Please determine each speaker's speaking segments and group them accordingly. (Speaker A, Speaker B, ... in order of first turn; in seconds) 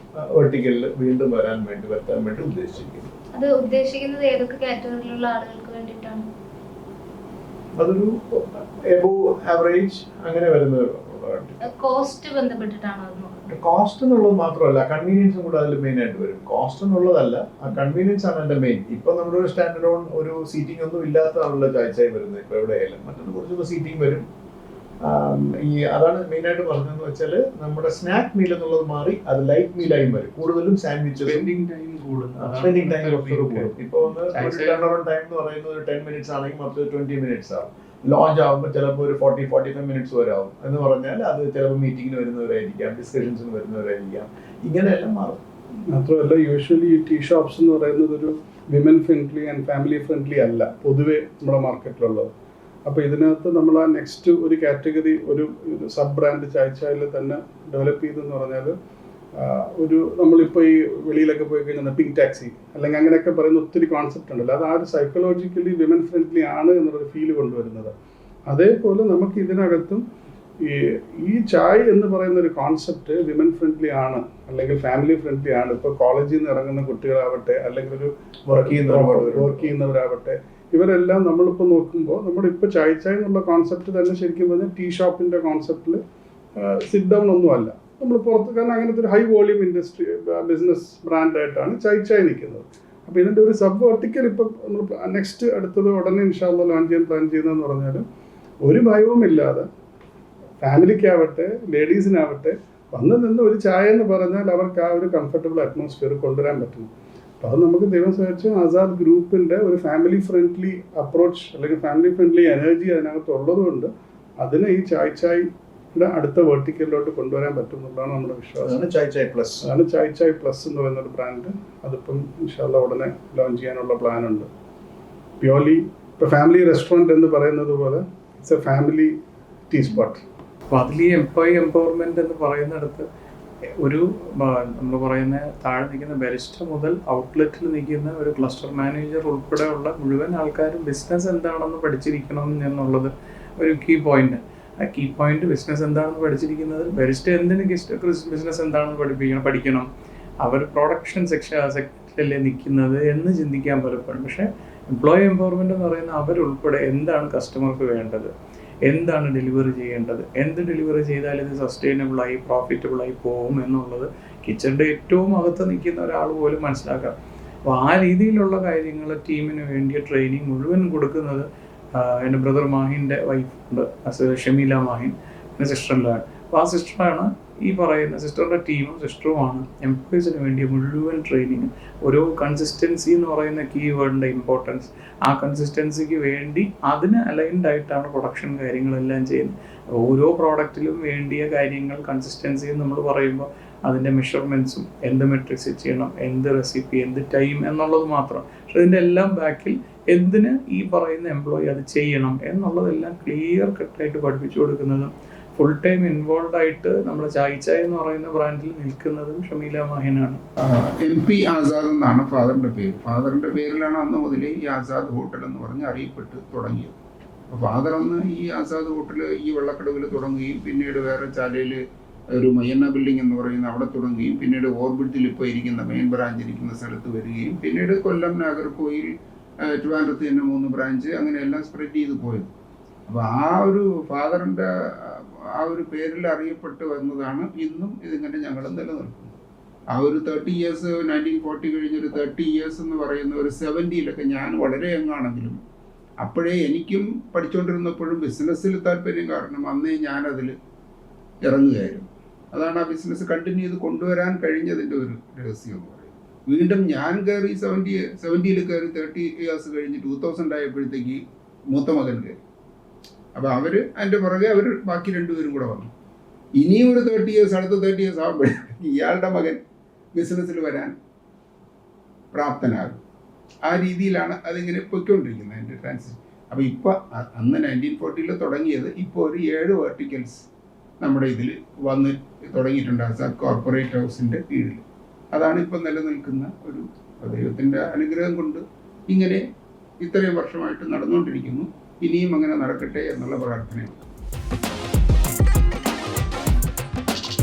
Speaker A: 0.1-3.1, 7.8-11.7, 13.5-24.2, 25.0-31.5, 32.4-45.4, 78.5-79.7, 118.6-119.6
Speaker B: 3.3-6.3, 11.6-13.4
Speaker C: 31.2-33.7, 34.3-34.9, 130.7-133.1, 133.8-149.9, 150.4-158.3, 158.8-167.1, 167.7-210.4
Speaker D: 45.9-52.3, 52.9-58.7, 59.4-67.9, 68.5-70.0, 70.6-86.0, 86.6-98.0, 98.6-99.7, 100.6-118.8, 119.6-124.5, 125.4-129.1, 129.7-130.2
Speaker E: 210.6-216.9, 217.5-221.8, 222.3-229.1, 229.6-232.5, 233.1-239.4, 239.9-245.6, 246.2-250.5, 251.4-262.4, 263.3-265.9, 266.6-269.6, 270.1-270.9, 272.3-273.0, 273.6-280.4, 281.0-289.4, 290.0-293.9